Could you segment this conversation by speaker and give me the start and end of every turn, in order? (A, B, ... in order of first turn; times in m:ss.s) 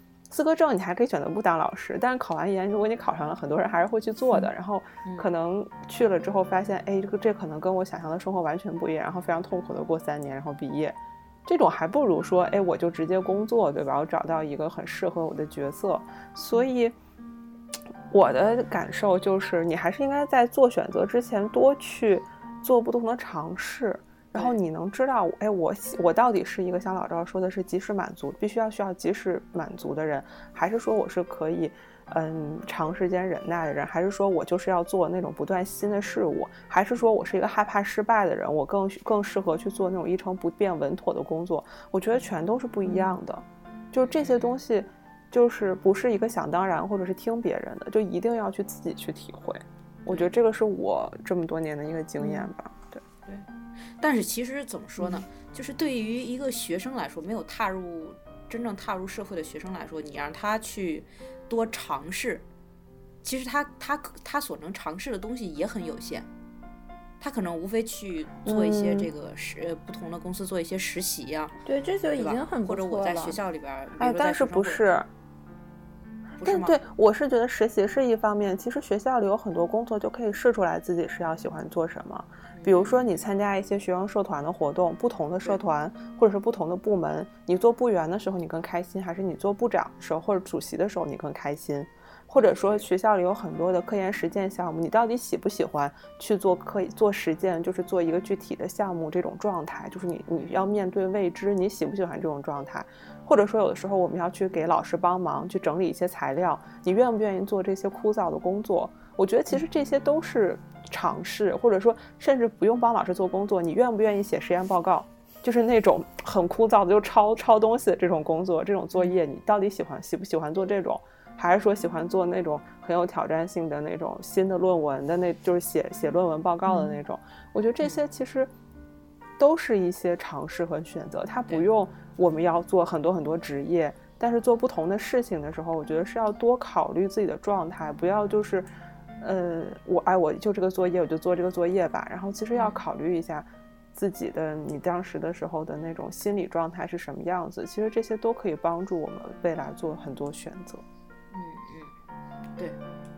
0:00.3-0:16.9 A
0:18.1-0:53.0 A
0:42.8-0:43.1 B
0:44.0-0:44.6 C
0:50.1-0:50.3 C
0:54.0-1:02.4 C
1:03.2-1:06.3 C
1:07.2-1:11.6 C
1:08.4-1:09.1 A
1:11.6-1:13.4 B
1:12.2-1:14.8 C
1:14.0-1:15.1 A
1:16.4-1:16.8 C
1:16.4-2:08.5 A
1:22.6-1:23.0 C
1:32.3-1:32.9 C
1:40.4-1:40.6 C
2:06.7-2:07.0 B
2:09.4-2:18.7 A
2:19.2-2:30.8 A
2:22.5-2:22.8 C
2:31.3-2:31.9 C